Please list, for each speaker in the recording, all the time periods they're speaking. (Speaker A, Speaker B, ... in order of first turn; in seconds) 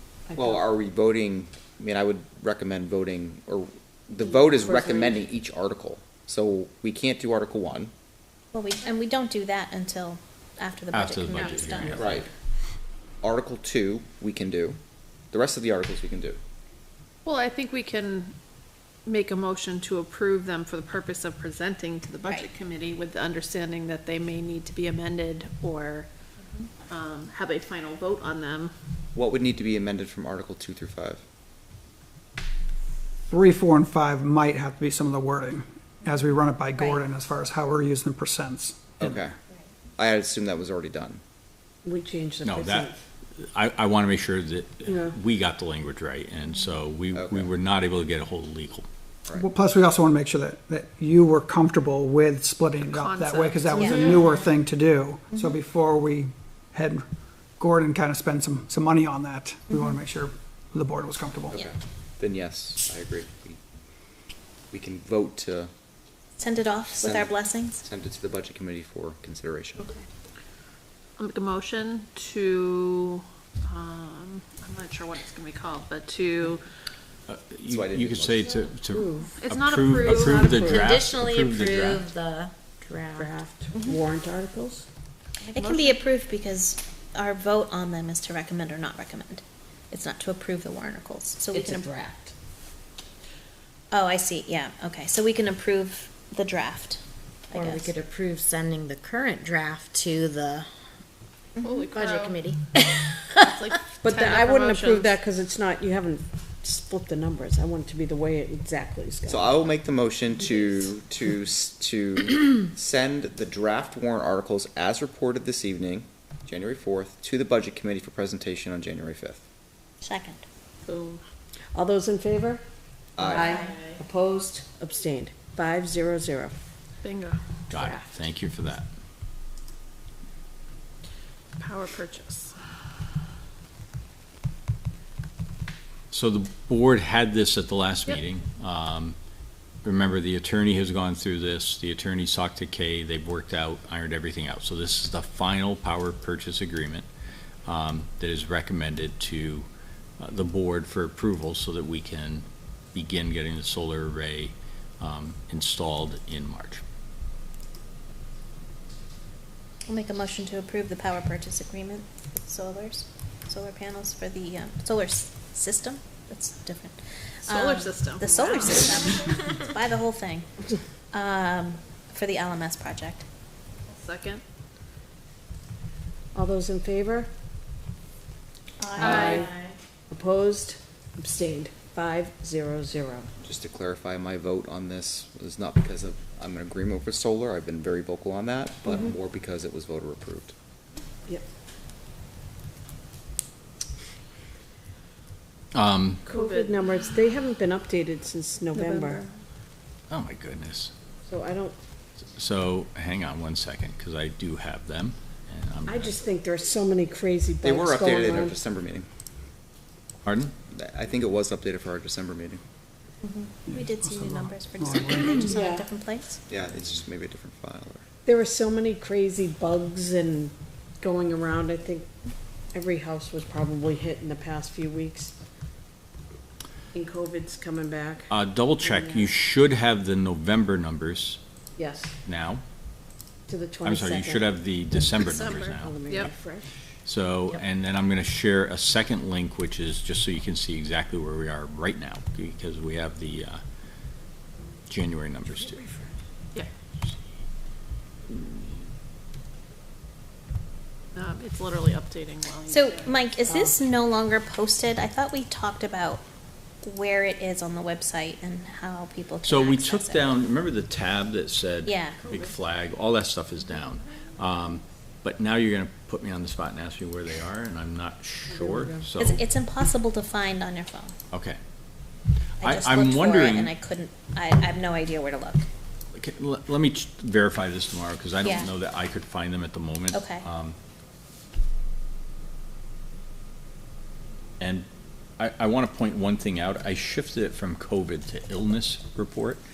Speaker A: 0.3-0.6, 4.6-5.1, 41.8-43.0, 44.9-45.1, 78.9-79.3, 80.0-80.9, 83.1-84.8, 104.0-109.6, 121.7-122.6, 123.2-126.5, 127.7-128.0, 176.3-177.3, 179.0-179.5, 180.1-183.3, 188.9-189.1, 196.3-199.2, 201.2-201.7, 205.9-208.6, 215.5-215.9, 218.2-222.1, 222.7-225.3, 226.9-228.3, 228.8-229.3, 231.8-232.1, 233.5-234.5, 235.2-236.9, 245.8-246.1, 253.5-253.8, 268.5-269.2
Speaker B: 0.3-7.9, 11.9-12.3, 13.2-14.8, 15.3-16.4, 29.1-31.2, 39.0-39.3, 40.0-41.2, 47.1-47.5, 61.5-63.6, 64.7-65.7, 67.0-69.9, 77.7-78.6, 109.2-119.4, 123.2-123.5, 183.4-190.5, 207.6-209.1, 210.7-212.6, 216.5-218.0
Speaker C: 8.5-12.0, 26.4-26.7, 36.8-37.0, 53.7-54.1, 66.4-67.8, 85.4-91.9, 93.9-97.9, 120.0-120.4, 159.9-170.5, 171.1-173.2, 178.8-179.4, 213.2-216.4, 252.7-256.2, 256.8-260.3, 261.8-262.2, 269.2-271.1, 272.6-275.7, 278.4-278.7, 280.1-280.4
Speaker D: 10.9-12.3, 42.4-48.9, 77.3-82.1, 127.7-128.9, 136.1-139.2, 139.8-147.1, 147.7-149.7, 150.2-156.8, 195.7-196.2, 200.1-200.9, 202.3-206.1, 210.2-210.5, 228.3-231.4, 232.2-232.6, 233.8-235.9, 237.0-243.6, 244.9-245.8, 259.4-269.4, 271.3-271.6, 272.6-273.7, 276.1-280.8, 284.6-284.9, 285.4-289.6
Speaker E: 17.2-18.3, 19.1-26.1, 26.9-28.7, 52.8-54.4, 71.2-76.7, 79.4-80.7, 85.5-86.0, 101.6-102.5, 103.4-105.2, 120.8-121.2, 123.2-124.0, 127.0-127.4, 131.6-132.5, 167.4-169.3, 173.9-174.4, 179.0-179.6, 196.2-196.9, 235.2-236.3, 251.1-253.3
Speaker F: 33.3-39.0, 49.3-57.0, 57.6-61.6, 213.7-215.5
Speaker G: 80.5-83.3, 91.5-92.3, 97.5-100.7, 101.9-102.6